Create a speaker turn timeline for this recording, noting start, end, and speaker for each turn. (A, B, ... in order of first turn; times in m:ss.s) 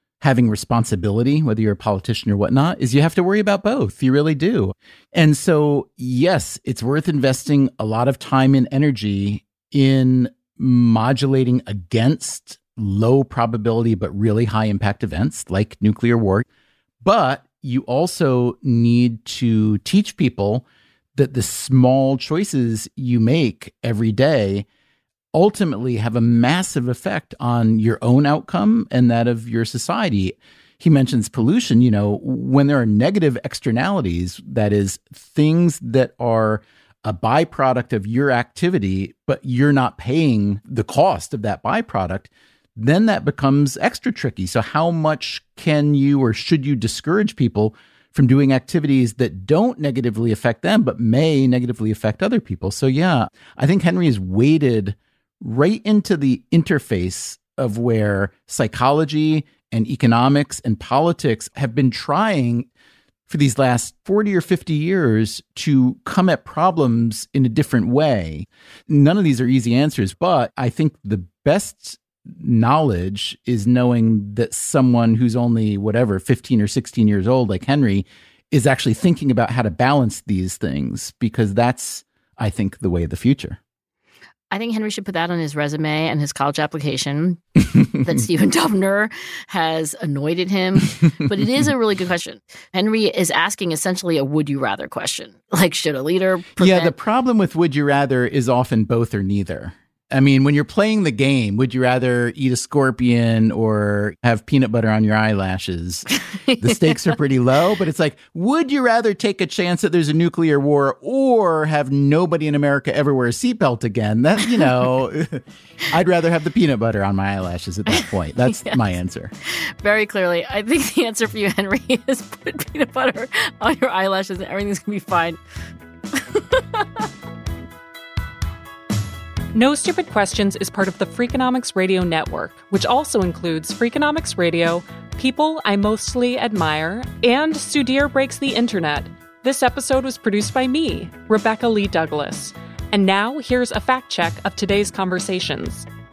0:00.2-0:16.4 A
0:17.0-0:24.6 A
0:25.3-1:02.7 A
1:03.3-1:23.6 A
1:24.5-1:27.4 B
1:27.9-1:36.9 B
1:36.6-1:46.0 A
1:46.3-1:47.2 B
1:46.6-1:59.3 A
1:57.9-1:58.8 B
1:59.4-2:05.4 B
2:06.1-2:07.0 B
2:09.5-2:25.9 C